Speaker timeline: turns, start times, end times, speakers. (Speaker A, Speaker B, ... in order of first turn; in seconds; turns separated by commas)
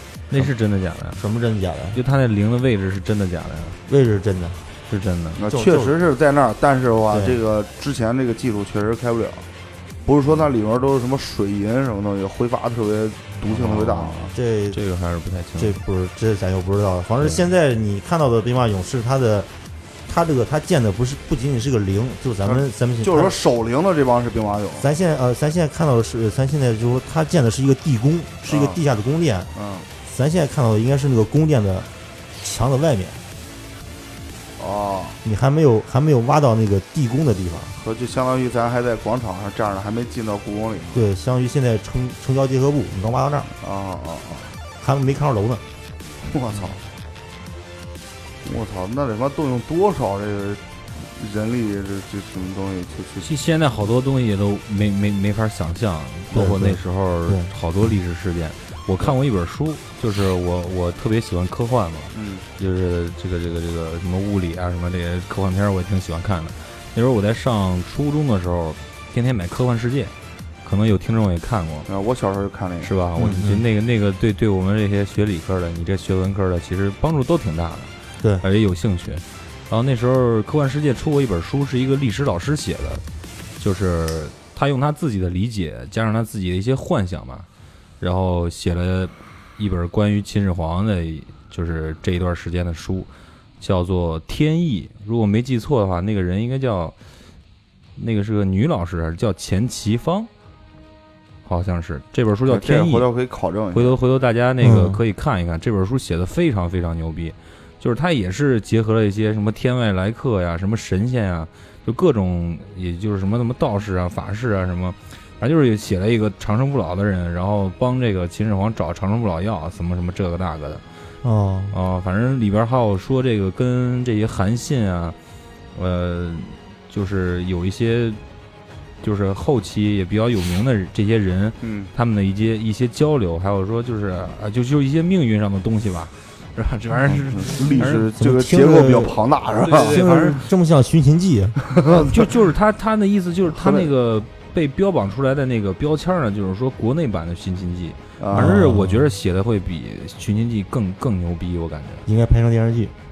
Speaker A: 0.3-1.2, Speaker B: 1.1-2.0, Speaker A: 1.9-3.8, Speaker B: 3.9-4.6, Speaker A: 4.9-5.4, Speaker C: 5.3-9.5, Speaker B: 5.5-6.0, Speaker B: 7.1-7.4, Speaker C: 10.0-14.3, Speaker A: 13.5-15.8, Speaker B: 14.3-14.8, Speaker B: 15.6-19.5, Speaker B: 20.1-23.3, Speaker C: 22.4-24.9, Speaker B: 24.8-29.5, Speaker C: 28.4-28.8, Speaker C: 29.5-29.9, Speaker B: 30.0-33.2, Speaker C: 34.6-35.2, Speaker B: 35.2-37.8, Speaker C: 37.8-41.0, Speaker B: 40.9-43.5, Speaker C: 43.6-44.5, Speaker B: 44.8-45.6, Speaker C: 46.2-46.8, Speaker C: 48.4-53.3, Speaker A: 53.2-71.9, Speaker B: 56.3-57.5, Speaker C: 62.1-62.5, Speaker C: 71.9-72.9, Speaker A: 72.8-83.0, Speaker B: 73.2-73.6, Speaker A: 83.6-87.5, Speaker A: 88.0-97.0, Speaker A: 98.0-100.3, Speaker A: 101.4-103.1, Speaker C: 102.5-104.0, Speaker A: 103.7-120.8, Speaker B: 104.6-105.0, Speaker B: 121.2-121.8, Speaker A: 121.7-125.2, Speaker A: 125.7-128.2, Speaker A: 129.0-138.1, Speaker C: 131.6-131.9, Speaker C: 137.1-140.0, Speaker B: 138.2-139.2, Speaker A: 139.6-140.4, Speaker B: 139.8-141.6, Speaker C: 141.7-142.1, Speaker A: 141.9-152.1, Speaker C: 143.5-143.9, Speaker C: 148.2-148.5, Speaker B: 148.3-149.2, Speaker B: 152.1-152.9